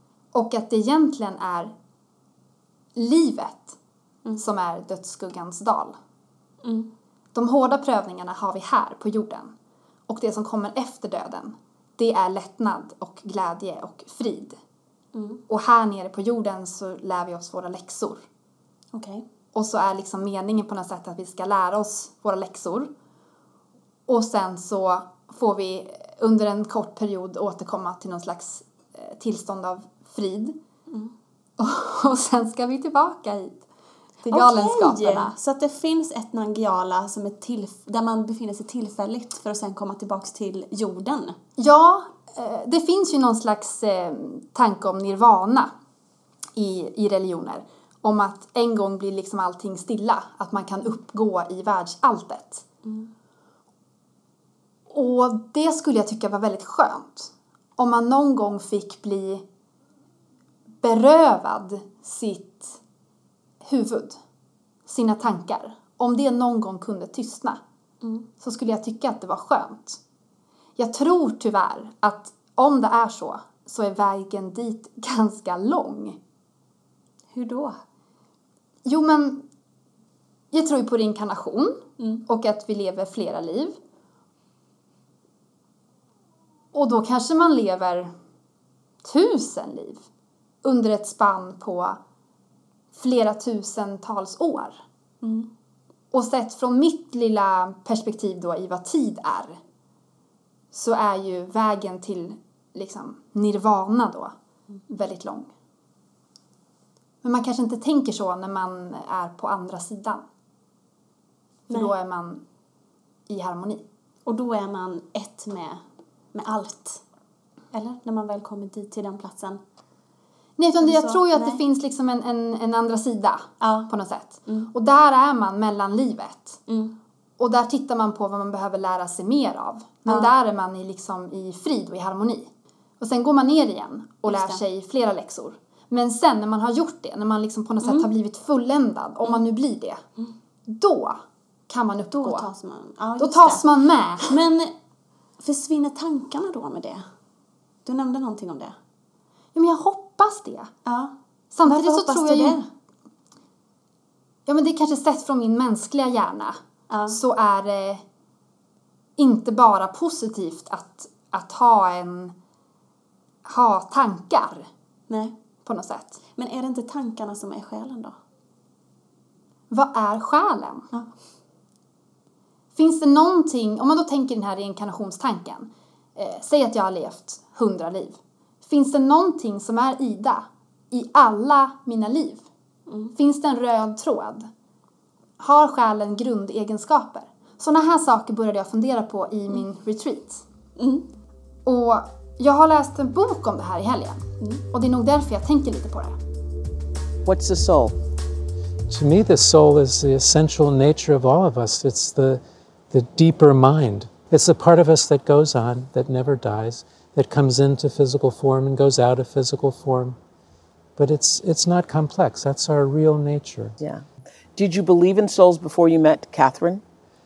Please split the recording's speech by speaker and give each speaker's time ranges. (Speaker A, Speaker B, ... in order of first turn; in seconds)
Speaker A: 0.3-1.7, 3.0-3.8, 4.4-6.0, 7.3-9.5, 10.1-14.6, 15.5-18.2, 19.5-22.9, 24.1-30.6, 31.6-33.6, 34.2-35.3, 41.6-45.7, 46.6-52.7, 54.9-59.4, 60.8-62.8, 63.6-64.2, 64.9-67.6, 68.4-70.0, 70.8-76.2, 78.8-79.4, 80.5-83.8, 86.7-88.1, 89.0-90.0, 90.6-92.0, 92.9-94.8, 96.1-99.6, 100.7-104.3, 104.9-105.5, 107.2-110.2, 111.7-112.4, 113.3-113.8, 120.6-126.6, 127.4-132.5, 133.0-140.0, 140.7-142.5, 143.2-144.4, 149.6-150.7, 151.5-152.6, 154.5-156.6, 157.1-158.0, 159.2-162.3, 163.4-164.7, 165.7-166.2, 169.7-170.9, 172.8-182.4, 183.2-184.5, 185.4-190.4, 191.7-196.2
Speaker B: 6.6-6.9, 15.1-15.4, 18.9-19.2, 34.3-41.4, 77.3-77.8, 95.2-95.5, 114.3-115.8, 116.3-117.0, 117.7-119.6, 120.8-121.6, 123.6-123.9, 126.7-126.9, 134.3-134.6, 137.8-138.1, 142.1-143.6, 144.2-144.7, 145.4-147.1, 147.8-148.8, 150.9-151.1, 151.7-152.7, 156.9-157.2, 165.1-165.3, 166.4-168.2, 182.9-183.1, 190.8-191.1
Speaker C: 197.2-197.9, 213.8-216.8
Speaker D: 198.9-210.2, 211.0-213.8